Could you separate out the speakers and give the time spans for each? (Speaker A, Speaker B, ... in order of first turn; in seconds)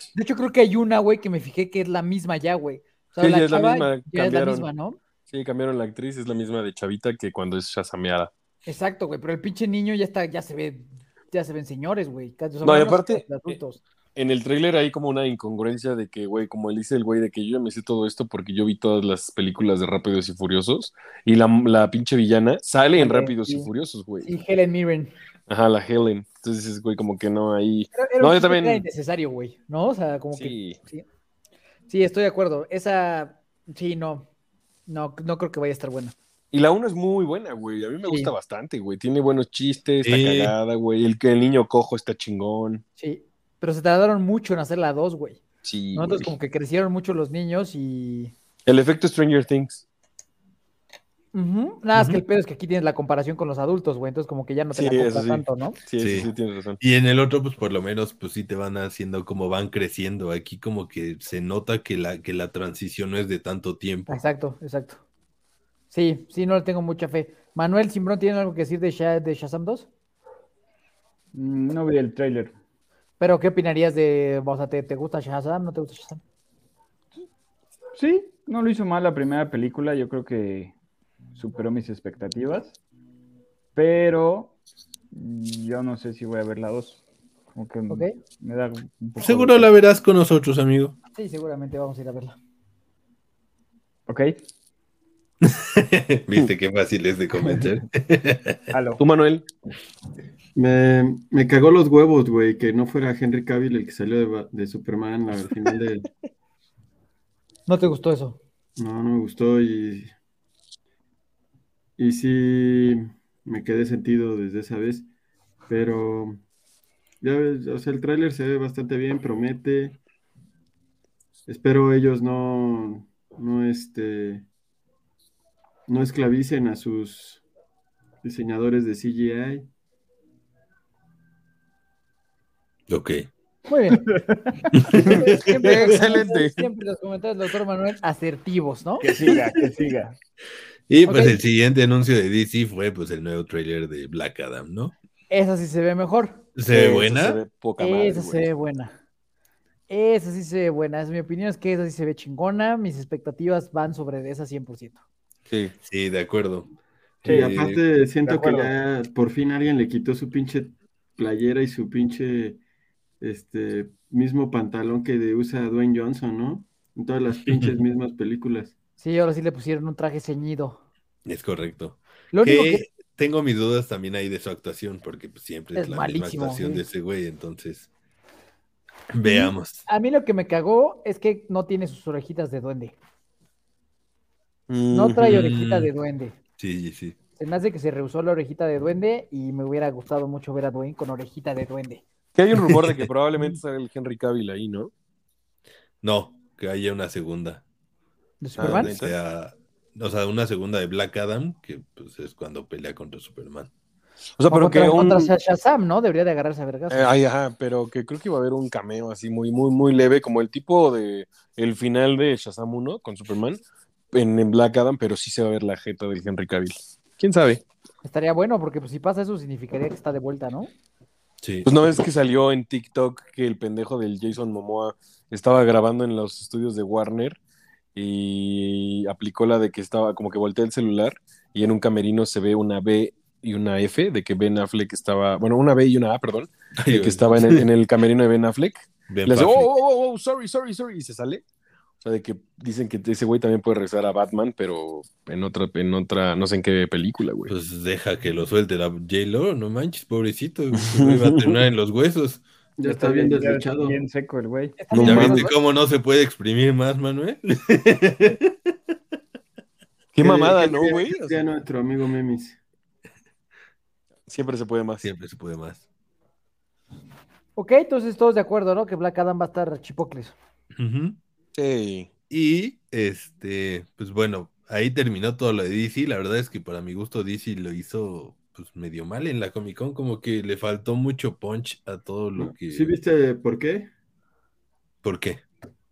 Speaker A: 0.1-5.0, 8.7-13.8, 23.0-23.7, 24.2-25.1, 27.9-31.0, 31.9-34.2, 34.9-36.1, 38.1-38.3, 43.0-45.4, 45.9-48.3, 51.3-55.8, 64.1-65.0, 65.9-69.9, 73.2-76.2, 91.1-92.4, 107.7-108.4, 133.7-134.0, 134.9-139.1, 141.1-141.4, 145.3-146.4, 147.8-148.9, 149.9-155.0, 169.0-170.8, 172.3-172.8, 175.7-176.8, 179.2-183.0, 184.9-186.3, 187.4-192.0, 198.4-198.9, 204.5-207.1, 218.0-220.7, 254.8-255.6, 267.6-270.3
Speaker B: 3.2-4.7, 5.3-8.3, 12.6-13.6, 14.2-24.3, 25.5-28.8, 30.3-30.8, 36.5-42.8, 45.6-46.3, 48.6-49.8, 54.7-56.8, 99.0-99.5, 135.1-136.7, 146.7-148.5, 155.5-155.7, 184.7-185.4, 192.3-194.9, 198.6-199.2, 204.4-205.3, 206.9-217.6, 221.6-227.4, 227.9-241.4, 242.0-247.5, 250.8-251.6, 254.9-255.5, 260.1-261.4, 264.3-265.1, 271.5-272.1
Speaker C: 40.0-40.5, 51.9-52.2, 56.0-56.3, 56.8-64.2, 89.2-91.0, 95.4-98.6, 132.9-133.2, 134.7-135.9, 140.9-144.9, 146.6-147.4, 155.8-156.7, 157.2-157.8, 167.5-167.7, 171.2-177.9, 179.1-179.8, 185.2-185.9, 186.6-187.2, 192.7-193.0, 196.0-197.6, 198.6-203.7, 221.4-221.7, 236.8-237.7, 239.1-239.7, 247.5-252.4, 255.0-258.7, 265.0-265.9, 270.8-271.2, 272.3-282.9, 285.0-285.4
Speaker D: 71.3-72.5, 77.9-80.7, 81.3-82.8, 83.7-84.5, 85.1-87.0, 87.5-89.7, 94.1-94.4, 97.4-97.7, 98.7-99.0, 134.1-134.7, 139.0-140.2, 157.2-157.6, 158.2-158.7, 252.8-254.8
Speaker E: 100.5-106.1, 108.8-110.1, 112.0-115.1, 115.7-116.4, 117.2-120.0, 121.5-124.5, 125.9-127.4, 128.2-129.7, 157.3-162.6, 163.2-168.7, 252.8-254.0, 260.2-262.6, 282.4-283.9